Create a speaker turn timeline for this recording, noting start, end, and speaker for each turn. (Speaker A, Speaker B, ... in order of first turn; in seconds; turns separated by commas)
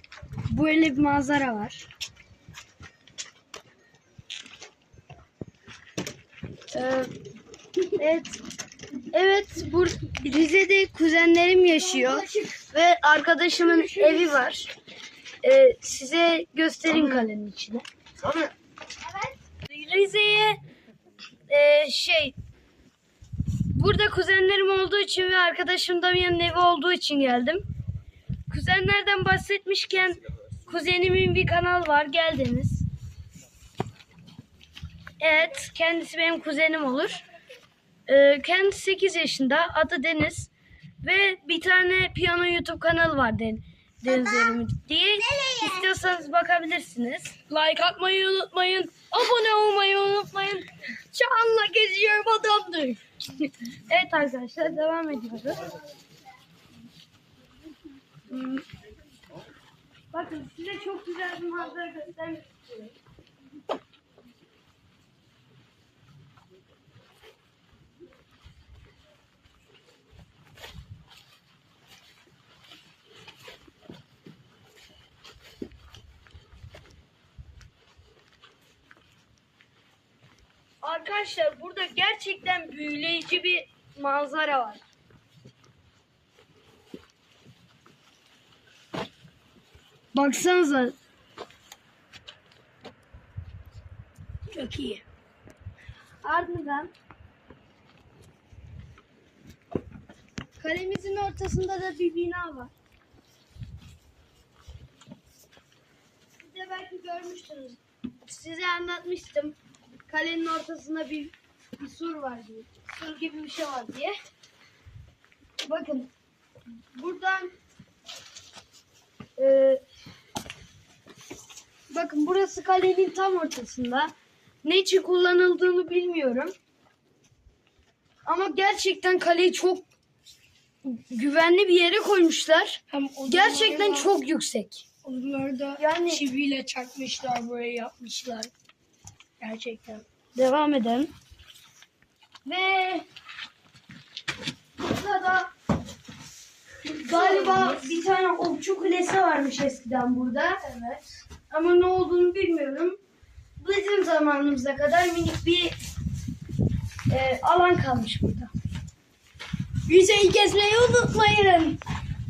Speaker A: 0.5-1.9, Speaker A: 6.7-7.1, Speaker A: 8.0-8.4, Speaker A: 9.1-14.7, Speaker B: 11.8-12.6, Speaker B: 13.6-14.4, Speaker A: 15.4-17.8, Speaker A: 19.6-20.6, Speaker A: 21.5-22.3, Speaker A: 23.7-27.6, Speaker A: 28.5-32.9, Speaker A: 35.2-37.2, Speaker A: 38.1-40.5, Speaker A: 41.0-55.8, Speaker B: 47.5-48.5, Speaker A: 58.3-58.6, Speaker A: 60.1-62.9, Speaker A: 80.8-84.8, Speaker A: 90.1-91.0, Speaker B: 94.5-95.0, Speaker A: 96.2-96.9, Speaker A: 100.6-102.7, Speaker A: 106.4-109.5, Speaker A: 110.1-114.1, Speaker A: 115.6-116.1, Speaker A: 116.9-117.5, Speaker A: 119.4-119.8, Speaker A: 121.9-124.1, Speaker A: 124.6-126.5, Speaker A: 128.2-129.9, Speaker A: 130.8-134.8, Speaker B: 132.9-134.1, Speaker B: 135.0-138.5, Speaker A: 135.8-136.2, Speaker B: 139.4-140.0, Speaker A: 140.3-141.1, Speaker A: 142.4-143.1, Speaker A: 144.8-145.5, Speaker A: 146.9-153.0, Speaker B: 147.0-147.8, Speaker A: 153.6-155.7, Speaker A: 157.1-158.5, Speaker B: 159.9-161.8